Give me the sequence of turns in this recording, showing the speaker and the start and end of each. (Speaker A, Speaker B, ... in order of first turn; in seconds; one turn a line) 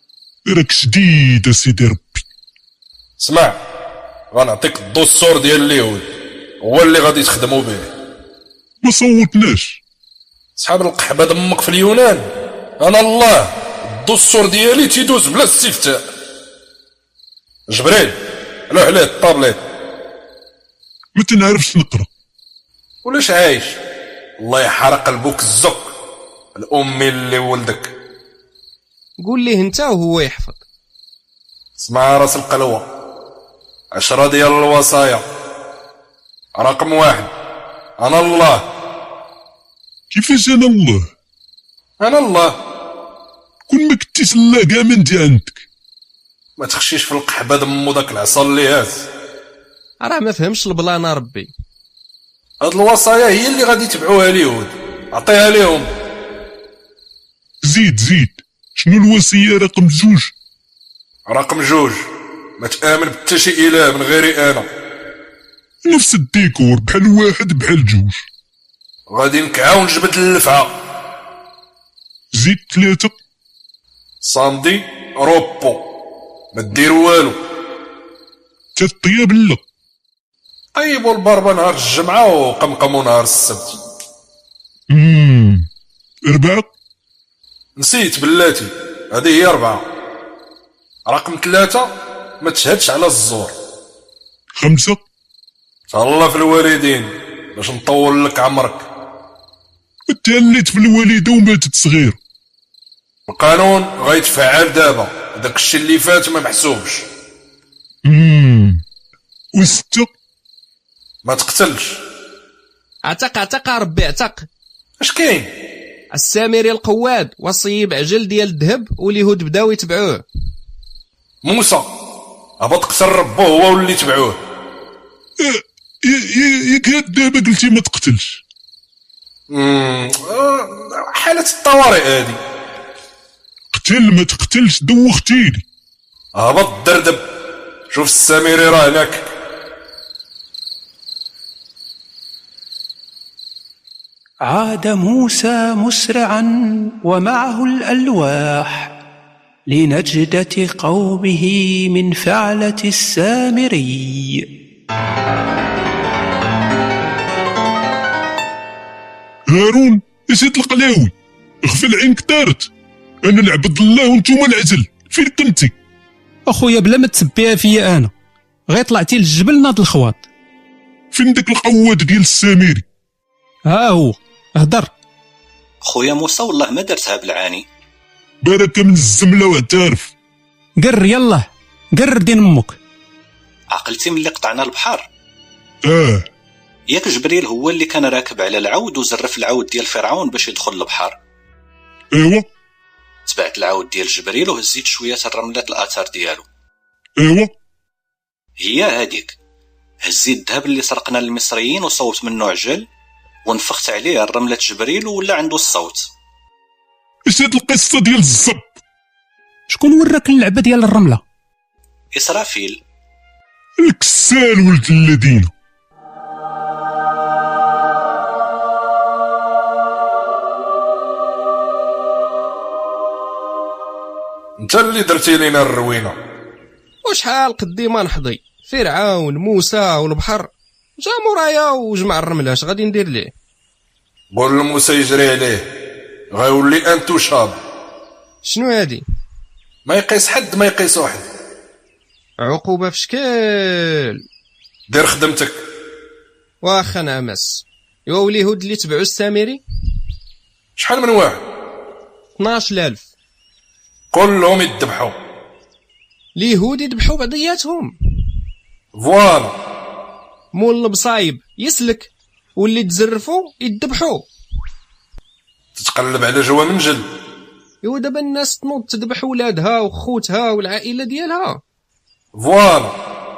Speaker A: 0.5-2.2
Speaker B: 3.2-3.6
Speaker B: 4.3-6.1
Speaker B: 6.6-7.9
Speaker A: 8.8-9.8
Speaker B: 10.6-12.2
Speaker B: 12.8-16.0
Speaker B: 17.7-18.1
Speaker B: 18.7-19.6
Speaker A: 21.2-22.1
Speaker B: 23.0-23.7
Speaker B: 24.4-25.9
Speaker B: 26.6-27.9
Speaker C: 29.2-30.6
Speaker B: 31.8-32.8
Speaker B: 33.9-35.2
Speaker B: 36.6-37.3
Speaker B: 38.0-38.6
Speaker A: 40.1-41.1
Speaker B: 42.0-42.5
Speaker A: 43.7-45.6
Speaker B: 46.6-49.0
Speaker C: 50.0-51.5
Speaker B: 52.6-55.9
Speaker A: 57.6-60.3
Speaker B: 61.3-62.0
Speaker B: 62.6-64.7
Speaker A: 65.8-68.2
Speaker B: 69.1-70.7
Speaker A: 72.3-73.1
Speaker B: 74.2-75.8
Speaker B: 76.5-77.4
Speaker A: 78.8-79.6
Speaker B: 80.8-83.8
Speaker A: 84.9-85.7
Speaker A: 86.3-86.7
Speaker B: 87.8-89.8
Speaker B: 91.0-91.9
Speaker B: 92.4-93.5
Speaker A: 94.6-95.0
Speaker B: 95.9-98.8
Speaker A: 100.1-102.2
Speaker B: 103.3-107.0
Speaker A: 108.0-108.8
Speaker A: 109.6-110.1
Speaker B: 111.2-111.9
Speaker C: 113.1-114.5
Speaker B: 115.0-115.5
Speaker C: 116.1-120.2
Speaker B: 121.4-121.8
Speaker B: 122.6-124.4
Speaker A: 125.4-128.4
Speaker B: 129.5-132.4
Speaker A: 133.7-135.6
Speaker B: 136.4-137.2
Speaker B: 137.9-139.2
Speaker D: 144.5-148.9
Speaker D: 149.7-154.4
Speaker A: 159.5-161.1
Speaker A: 161.6-162.7
Speaker A: 163.2-165.7
Speaker E: 166.5-168.1
Speaker E: 168.7-170.2
Speaker A: 171.1-172.8
Speaker E: 173.7-174.9
Speaker F: 175.8-177.6
Speaker A: 178.4-180.1
Speaker E: 180.8-182.8
Speaker F: 183.7-185.1
Speaker A: 185.8-186.2
Speaker F: 186.9-191.2
Speaker A: 192.1-192.4
Speaker F: 193.2-196.4
Speaker A: 197.2-197.5
Speaker F: 198.6-199.3
Speaker F: 200.0-202.9
Speaker F: 203.4-206.1
Speaker A: 207.3-208.7
Speaker E: 209.7-211.2
Speaker F: 212.1-212.8
Speaker A: 213.8-215.5
Speaker B: 224.6-226.2
Speaker C: 227.0-233.3
Speaker B: 234.3-235.6
Speaker B: 236.3-237.6
Speaker C: 238.4-239.0
Speaker B: 239.8-241.3
Speaker C: 242.4-244.2
Speaker B: 244.9-245.6
Speaker C: 246.6-249.6
Speaker B: 250.8-251.4
Speaker C: 252.4-253.1
Speaker B: 254.1-255.1
Speaker C: 256.4-257.9
Speaker B: 259.0-259.5
Speaker C: 260.5-264.2
Speaker B: 265.8-267.1
Speaker C: 267.8-271.6
Speaker B: 272.3-272.9